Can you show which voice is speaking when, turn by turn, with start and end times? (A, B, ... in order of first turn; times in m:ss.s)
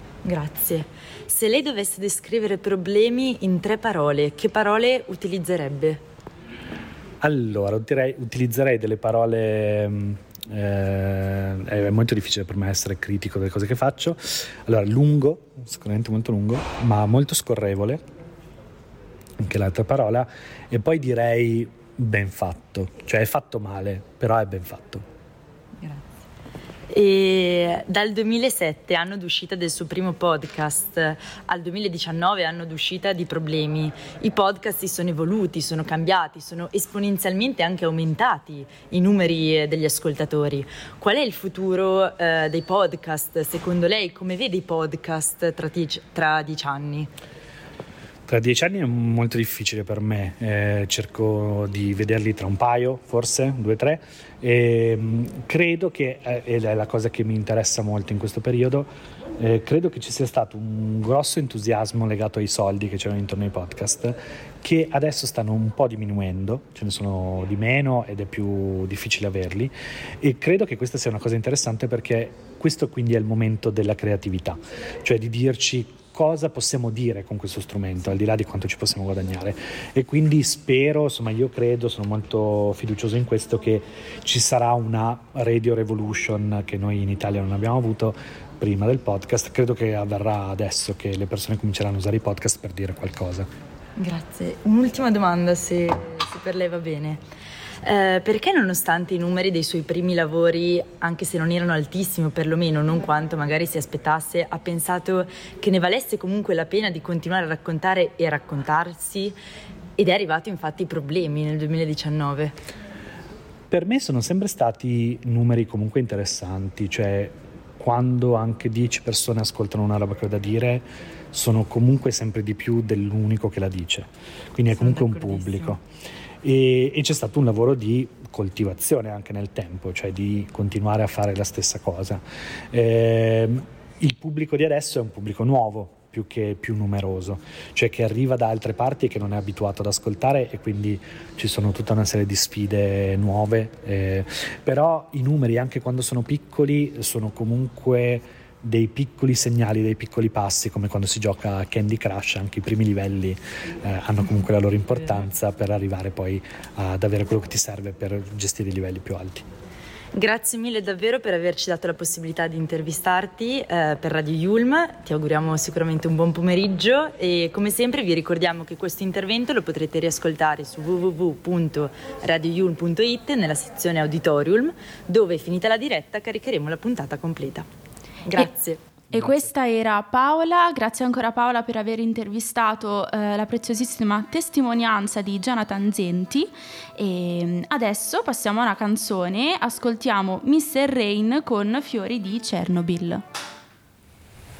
0:00.2-0:06.0 A
0:07.2-0:18.0 B
0:19.4-0:25.0 B
0:25.8-0:26.0 A
0:26.9-0:47.1 A
0:48.3-1:33.5 B
1:34.0-1:37.2 A
1:37.8-1:49.3 A
1:50.0-1:52.5 A
1:53.7-2:05.8 B
2:06.4-2:39.4 B
2:40.1-2:57.7 A
2:58.2-2:58.8 A
2:59.1-3:13.2 C